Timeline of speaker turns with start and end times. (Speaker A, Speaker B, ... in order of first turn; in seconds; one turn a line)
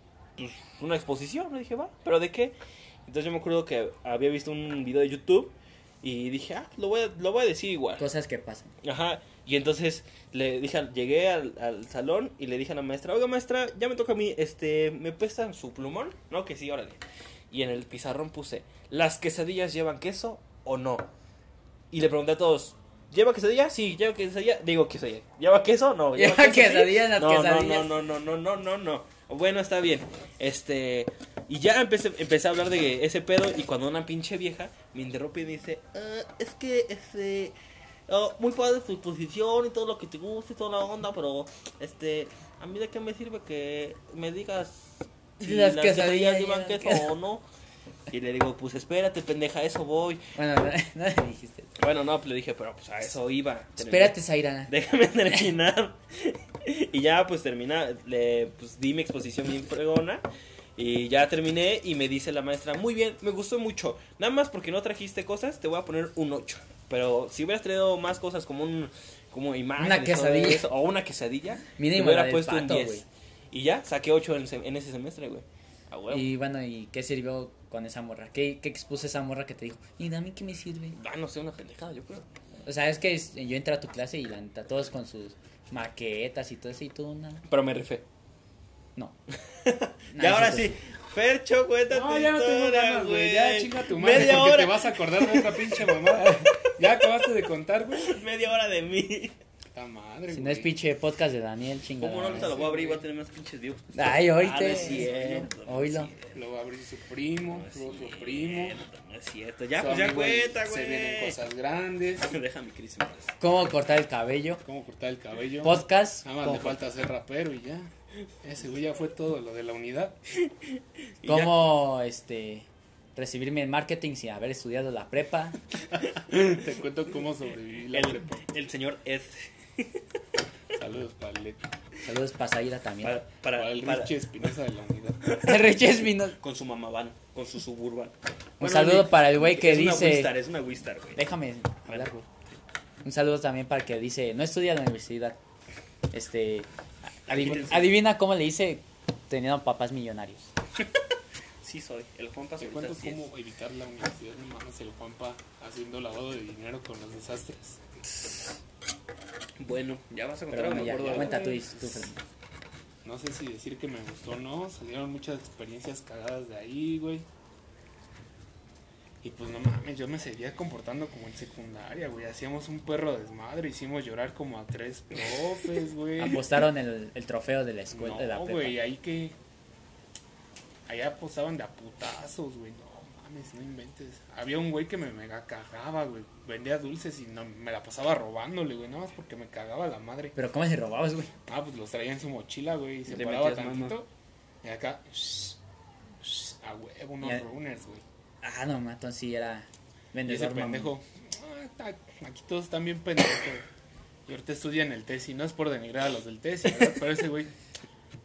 Speaker A: 0.4-2.5
Speaker A: 3.1-8.1
Speaker B: 8.0-8.7
Speaker A: 8.8-21.1
Speaker A: 21.9-37.5
Speaker B: 26.2-27.9
Speaker A: 38.1-47.4
Speaker B: 45.4-47.1
Speaker A: 48.1-50.2
Speaker B: 50.4-51.7
Speaker A: 51.8-60.2
Speaker B: 53.8-54.7
Speaker A: 60.8-76.3
Speaker B: 69.8-70.6
Speaker B: 71.8-73.0
Speaker B: 76.1-81.0
Speaker A: 81.0-82.3
Speaker B: 82.7-87.5
Speaker A: 87.5-88.0
Speaker A: 89.6-96.0
Speaker B: 90.1-90.8
Speaker C: 91.9-98.2
Speaker B: 96.2-96.5
Speaker A: 96.6-97.3
Speaker A: 97.9-99.3
Speaker C: 99.7-100.7
Speaker B: 100.3-102.5
Speaker A: 102.0-106.4
Speaker C: 102.3-103.1
Speaker B: 103.9-105.1
Speaker C: 104.6-105.5
Speaker B: 105.6-106.1
Speaker C: 106.3-108.8
Speaker A: 107.5-111.4
Speaker C: 109.8-112.4
Speaker A: 112.2-113.4
Speaker B: 113.4-114.6
Speaker C: 114.6-120.2
Speaker B: 115.6-116.9
Speaker A: 121.2-121.7
Speaker B: 121.3-125.6
Speaker C: 126.3-128.4
Speaker A: 127.9-130.2
Speaker C: 130.7-131.7
Speaker B: 132.1-133.2
Speaker A: 133.0-134.3
Speaker C: 133.5-135.3
Speaker B: 135.4-136.4
Speaker A: 136.4-141.2
Speaker B: 138.6-140.3
Speaker B: 141.2-142.3
Speaker A: 141.9-142.6
Speaker B: 143.0-145.4
Speaker B: 146.1-150.5
Speaker A: 147.3-147.9
Speaker A: 151.6-153.2
Speaker C: 152.6-157.8
Speaker A: 159.6-162.1
Speaker B: 160.5-162.2
Speaker C: 160.8-161.6
Speaker C: 163.0-167.3
Speaker C: 169.2-176.4
Speaker B: 176.2-178.8
Speaker C: 177.9-179.4
Speaker C: 180.9-190.4
Speaker B: 190.4-191.3
Speaker C: 191.5-194.1
Speaker A: 193.1-194.0
Speaker C: 194.6-195.6
Speaker C: 196.2-198.0
Speaker B: 197.2-197.5
Speaker B: 198.4-200.9
Speaker C: 200.2-203.7
Speaker C: 204.3-207.5